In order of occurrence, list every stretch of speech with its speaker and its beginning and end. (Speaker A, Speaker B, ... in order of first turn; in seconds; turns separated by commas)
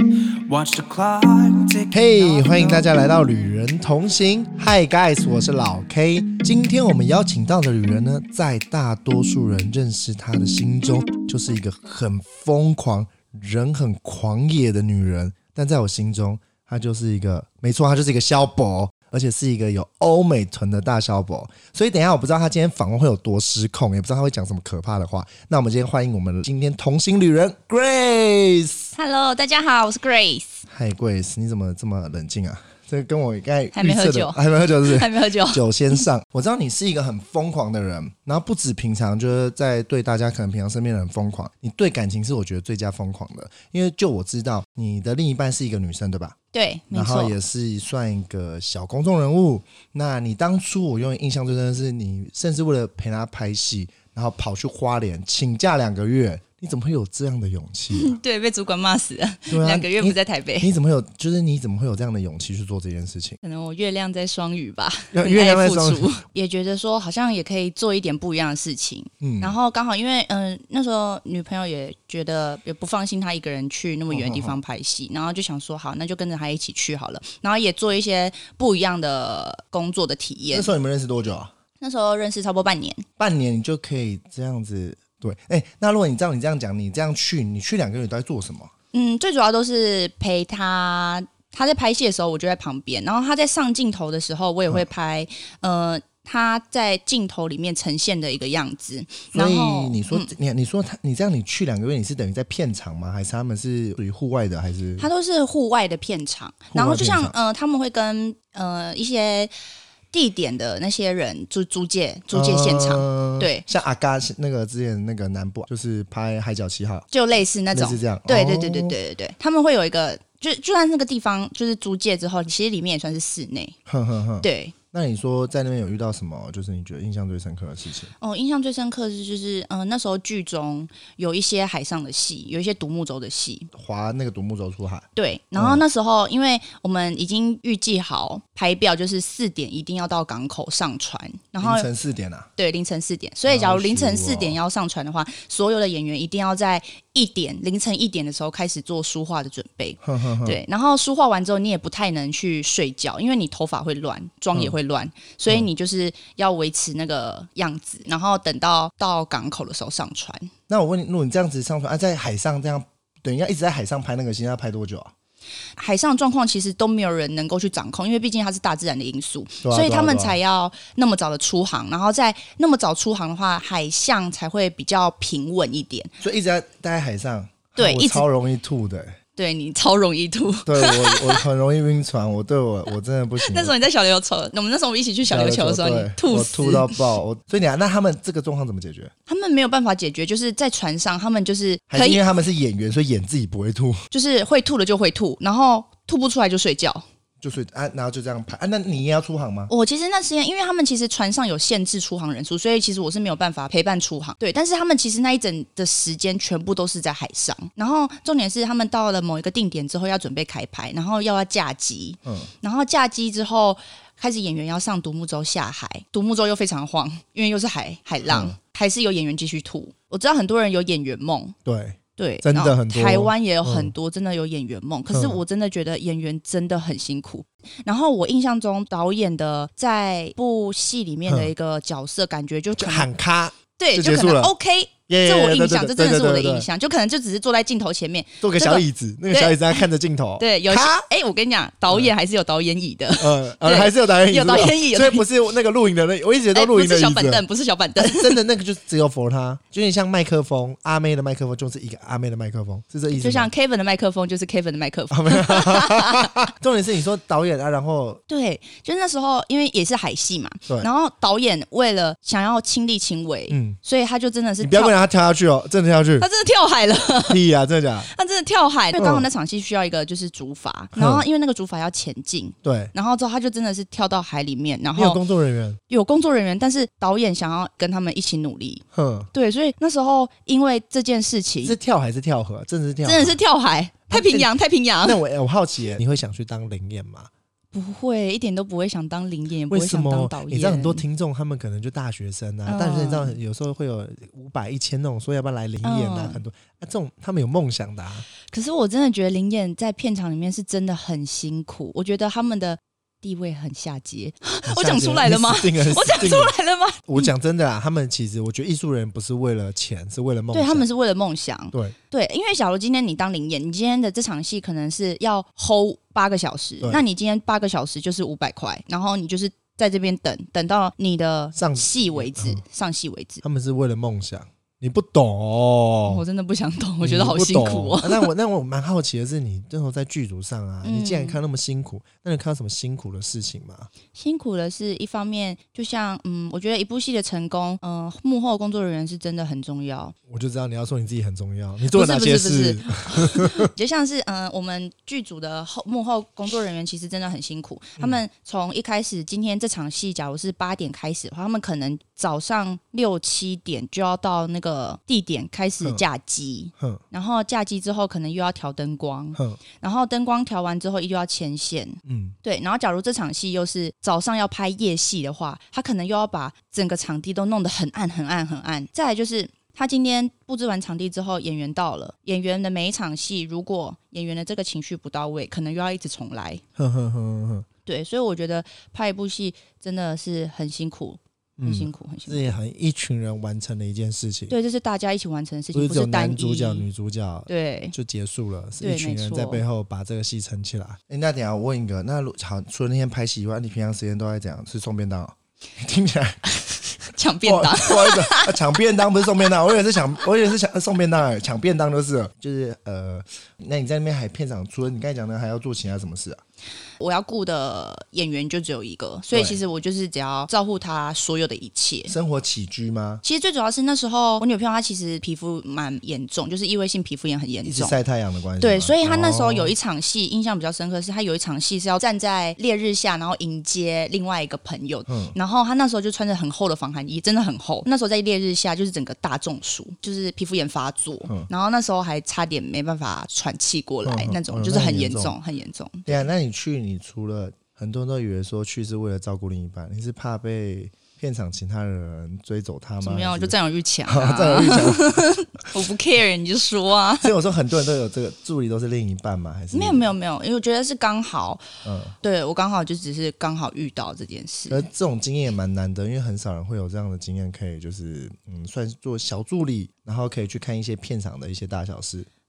Speaker A: 0.5-3.0, Speaker B: 1.9-28.9, Speaker C: 28.9-30.6, Speaker B: 30.7-46.4, Speaker C: 33.8-36.0, Speaker C: 46.5-47.4, Speaker B: 46.9-58.1, Speaker C: 57.9-60.7, Speaker B: 59.5-63.4, Speaker C: 63.4-80.7, Speaker B: 65.1-66.1, Speaker B: 69.2-69.5, Speaker B: 74.1-74.6, Speaker B: 80.5-81.5, Speaker C: 81.8-83.0, Speaker B: 83.2-88.7, Speaker C: 88.9-100.3, Speaker B: 99.3-105.1, Speaker C: 105.0-109.5, Speaker B: 106.7-107.3, Speaker C: 110.1-113.6, Speaker B: 112.3-117.1, Speaker C: 117.1-123.8, Speaker B: 117.7-119.0, Speaker B: 123.9-128.1, Speaker C: 124.4-124.7, Speaker C: 128.2-133.7, Speaker B: 133.7-135.8, Speaker C: 135.2-141.9, Speaker B: 141.6-142.5, Speaker C: 142.6-160.5, Speaker B: 143.5-144.6, Speaker B: 150.0-150.6, Speaker B: 160.7-165.1, Speaker C: 165.8-176.1, Speaker B: 169.6-170.4, Speaker B: 176.2-179.2, Speaker C: 177.8-178.2, Speaker C: 179.4-181.4, Speaker B: 180.7-183.7, Speaker C: 183.4-187.0, Speaker B: 185.3-189.1, Speaker C: 189.3-192.2, Speaker B: 191.9-194.0, Speaker C: 194.1-197.1, Speaker B: 197.4-199.7, Speaker C: 199.7-221.6, Speaker B: 212.2-212.5, Speaker B: 218.3-218.5, Speaker B: 221.7-223.9, Speaker C: 222.2-233.1, Speaker B: 225.1-225.4, Speaker B: 232.8-234.5, Speaker C: 233.8-239.8, Speaker B: 235.1-236.7, Speaker B: 238.4-241.1, Speaker C: 240.4-245.3, Speaker B: 243.2-247.4, Speaker C: 246.5-248.4, Speaker B: 248.0-253.5, Speaker C: 253.1-256.3, Speaker B: 255.1-258.2, Speaker C: 258.3-265.0, Speaker B: 263.5-263.8, Speaker B: 264.6-266.3, Speaker C: 266.2-267.4, Speaker B: 267.3-268.1, Speaker C: 268.1-275.2, Speaker B: 268.9-269.3, Speaker B: 270.9-271.2, Speaker B: 272.6-272.9, Speaker B: 275.0-275.8, Speaker C: 275.9-281.8, Speaker B: 278.9-279.3, Speaker B: 281.6-283.4, Speaker C: 283.0-285.2, Speaker B: 284.1-284.5, Speaker B: 285.0-287.3, Speaker C: 287.7-291.0, Speaker B: 289.7-298.3, Speaker C: 292.7-293.4, Speaker C: 295.8-296.4, Speaker C: 298.5-307.3, Speaker B: 304.7-310.9, Speaker C: 310.5-323.4, Speaker B: 321.5-322.6, Speaker B: 323.4-326.2, Speaker C: 326.1-328.3, Speaker B: 327.0-333.9, Speaker C: 330.8-331.4, Speaker C: 334.1-340.1, Speaker B: 340.3-343.7, Speaker C: 341.9-376.6, Speaker B: 359.4-359.6, Speaker B: 362.1-362.4, Speaker B: 376.8-377.7, Speaker C: 377.9-382.5, Speaker B: 381.6-384.5, Speaker C: 384.5-386.9, Speaker B: 385.7-396.4, Speaker C: 387.5-387.9, Speaker C: 388.8-389.6, Speaker C: 397.0-398.6, Speaker B: 397.4-406.4, Speaker C: 407.0-412.1, Speaker B: 409.3-409.6, Speaker B: 412.1-413.2, Speaker C: 413.2-418.0, Speaker B: 417.6-419.7, Speaker C: 418.6-436.1, Speaker B: 425.1-425.4, Speaker B: 434.0-435.4, Speaker B: 436.1-443.6, Speaker C: 443.0-447.3, Speaker B: 444.1-445.3, Speaker B: 447.2-450.1, Speaker C: 449.7-451.6, Speaker B: 451.8-452.1, Speaker C: 452.2-454.8, Speaker B: 454.7-462.3